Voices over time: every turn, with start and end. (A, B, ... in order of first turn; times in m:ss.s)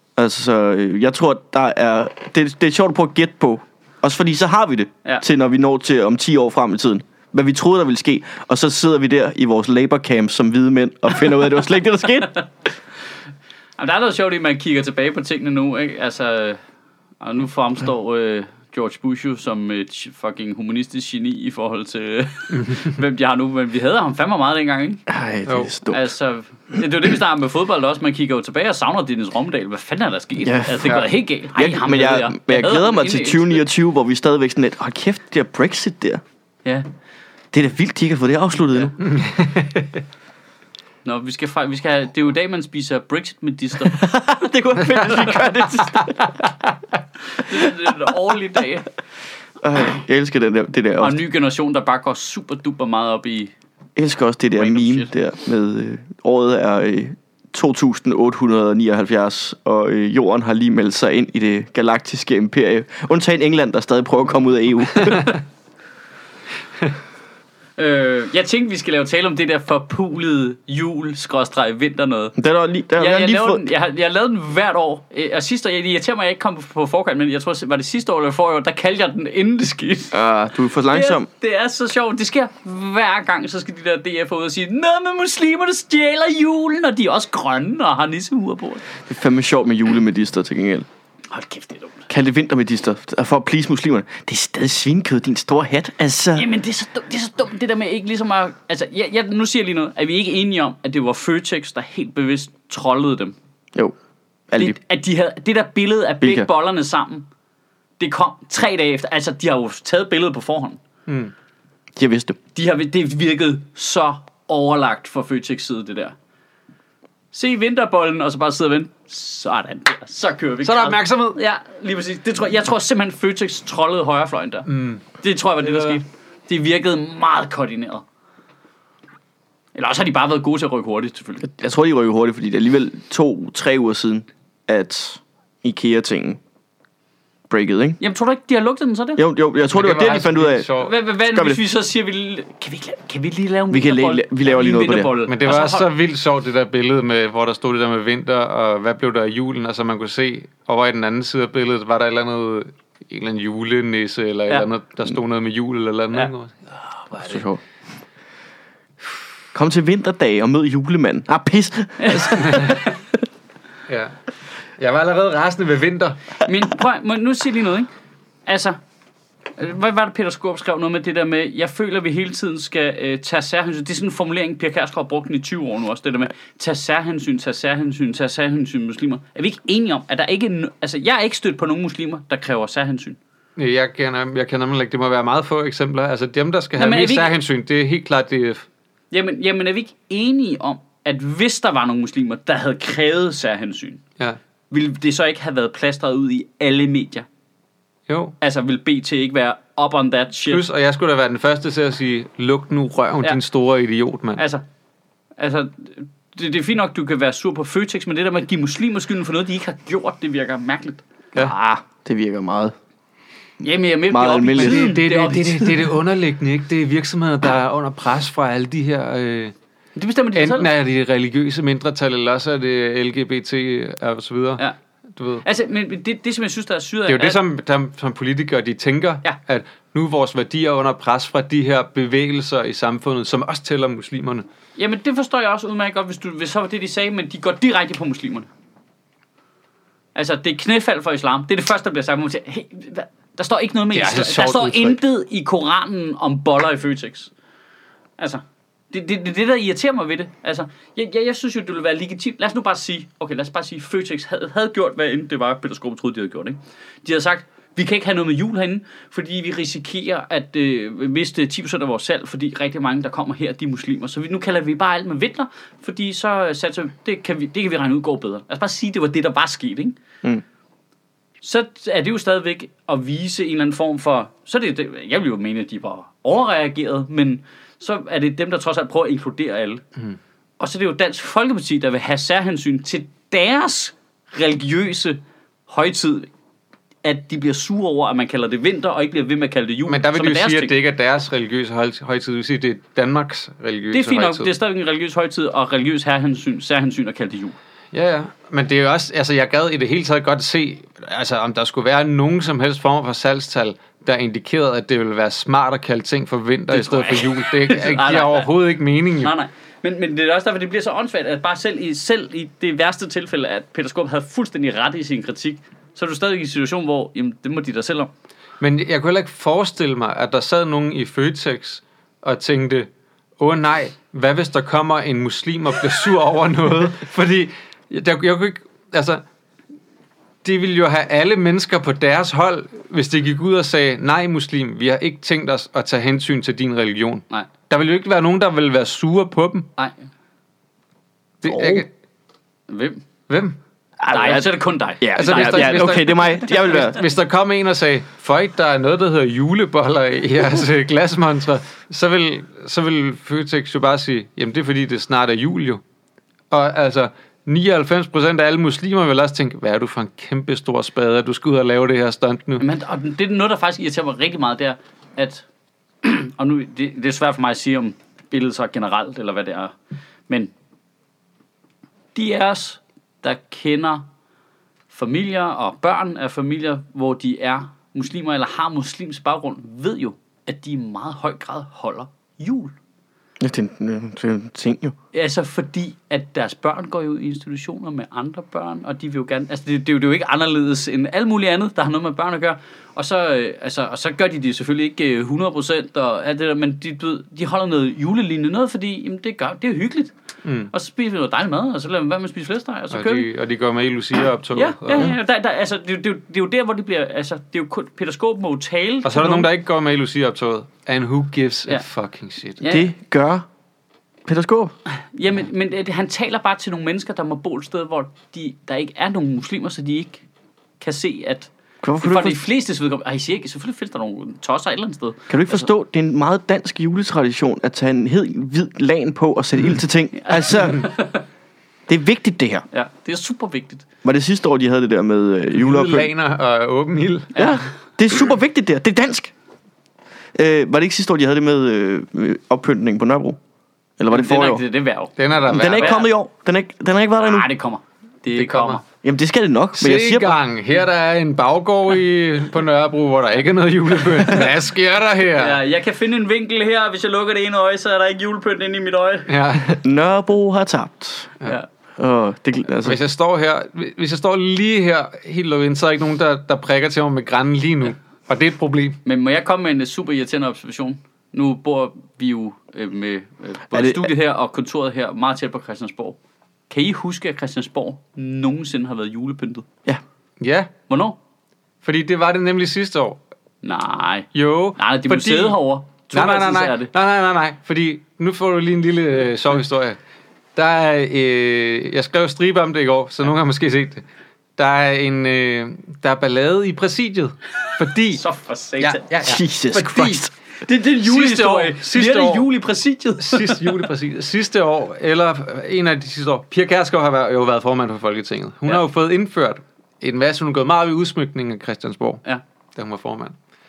0:00.2-0:12.4 A
0:13.8-0:16.6 B
0:17.2-0:25.0 B
0:25.1-0:26.1 A
0:25.4-0:25.7 C
0:25.9-0:33.6 B
0:30.4-0:36.2 A
0:37.5-0:39.0 A
0:39.0-0:40.0 C
0:41.0-0:44.0 B
0:43.9-0:46.4 A
0:47.3-0:48.9 B
0:49.6-0:51.2 A
0:51.0-0:53.5 B
0:54.0-1:05.3 A
0:54.5-0:55.1 B
1:07.8-1:12.3 B
1:12.4-1:13.7 A
1:13.0-1:20.2 B
1:20.1-1:21.3 A
1:20.9-1:28.8 B
1:29.0-1:30.8 A
1:31.3-1:32.1 B
1:32.1-1:36.5 A
1:36.4-1:43.3 B
1:44.5-1:44.8 A
1:44.5-1:47.3 B
1:46.2-1:46.5 A
1:48.0-1:50.8 B
1:51.1-1:51.3 C
1:52.0-1:52.4 A
1:52.5-1:56.1 B
1:57.3-2:08.0 B
2:00.6-2:01.4 C
2:04.7-2:05.0 C
2:05.6-2:06.0 C
2:09.7-2:11.5 B
2:11.4-2:16.4 A
2:17.5-2:18.0 A
2:18.0-2:19.2 B
2:19.2-2:20.7 A
2:19.7-2:20.9 C
2:20.8-2:25.9 B
2:21.3-2:21.6 A
2:23.7-2:25.1 A
2:25.3-2:37.4 C
2:37.2-2:37.6 A
2:39.5-2:42.8 A
2:42.0-2:43.0 B
2:42.4-2:42.8 C
2:43.9-2:44.1 C
2:44.8-2:46.2 C
2:46.4-2:47.9 B
2:48.4-2:48.8 B
2:49.6-3:03.2 B
3:03.6-3:08.7 C
3:06.8-3:07.3 B
3:09.1-3:14.0 B
3:14.7-3:17.2 B
3:18.1-3:18.3 C
3:18.4-3:20.6 B
3:20.5-3:24.4 C
3:24.4-3:24.6 B
3:25.4-3:31.0 B
3:31.3-3:32.8 A
3:33.6-3:35.9 B
3:34.1-3:35.0 A
3:34.5-3:39.5 C
3:40.0-3:40.7 B
3:40.3-3:44.6 C
3:45.2-3:45.4 C
3:45.4-3:47.4 B
3:47.1-3:54.4 C
3:54.8-3:58.5 B
4:00.1-4:07.3 B
4:03.9-4:05.0 C
4:08.2-4:30.0 B
4:31.4-4:39.8 B
4:40.6-4:46.3 B
4:47.0-4:50.8 B
4:49.9-4:54.5 C
4:53.9-4:57.6 B
4:57.9-5:09.3 C
5:06.7-5:08.5 B
5:09.2-5:18.1 B
5:18.6-5:22.9 C
5:23.4-5:29.2 C
5:30.4-5:39.7 C
5:41.4-5:41.9 C
5:41.5-5:41.8 A
5:42.7-5:43.0 B
5:43.3-5:43.6 C
5:44.0-5:47.1 A
5:44.1-5:46.1 B
5:45.1-5:55.8 C
5:56.5-6:02.6 C
6:02.6-6:05.4 B
6:06.0-6:09.7 B
6:12.1-6:14.0 B
6:14.9-6:22.7 B
6:23.4-6:24.9 A
6:25.1-6:40.1 B
6:40.4-6:40.7 C
6:40.7-6:43.3 B
6:42.9-6:45.1 C
6:44.5-6:49.5 B
6:49.0-6:52.6 C
6:52.6-6:52.9 B
6:52.7-6:53.4 A
6:54.2-6:54.7 A
6:54.9-7:00.2 B
7:00.8-7:05.7 B
7:01.8-7:02.4 A
7:05.3-7:10.9 A
7:10.2-7:11.2 B
7:11.9-7:12.6 A
7:12.7-7:13.8 B
7:14.0-7:16.1 A
7:15.5-7:17.4 C
7:17.3-7:17.7 B
7:17.4-7:19.3 A
7:20.3-7:23.4 A
7:24.0-7:24.6 A
7:24.1-7:26.1 B
7:25.2-7:26.0 C
7:25.5-7:27.5 A
7:27.2-7:28.8 B
7:28.4-7:28.8 C
7:29.0-7:30.4 A
7:29.8-7:35.6 C
7:35.4-7:39.3 B
7:39.3-7:39.8 C
7:39.6-7:41.3 A
7:42.0-7:43.0 A
7:42.8-7:49.0 C
7:49.0-7:56.2 B
7:53.7-7:54.1 A
7:56.7-7:59.6 B
8:00.4-8:00.7 C
8:00.9-8:01.2 B
8:01.8-8:03.2 C
8:03.6-8:06.9 B
8:04.3-8:10.0 C
8:10.6-8:14.0 C
8:14.6-8:18.2 C
8:18.1-8:19.0 B
8:18.8-8:20.2 C
8:19.2-8:20.3 A
8:19.7-8:23.8 B
8:21.0-8:22.5 C
8:23.2-8:32.2 C
8:32.8-8:33.3 C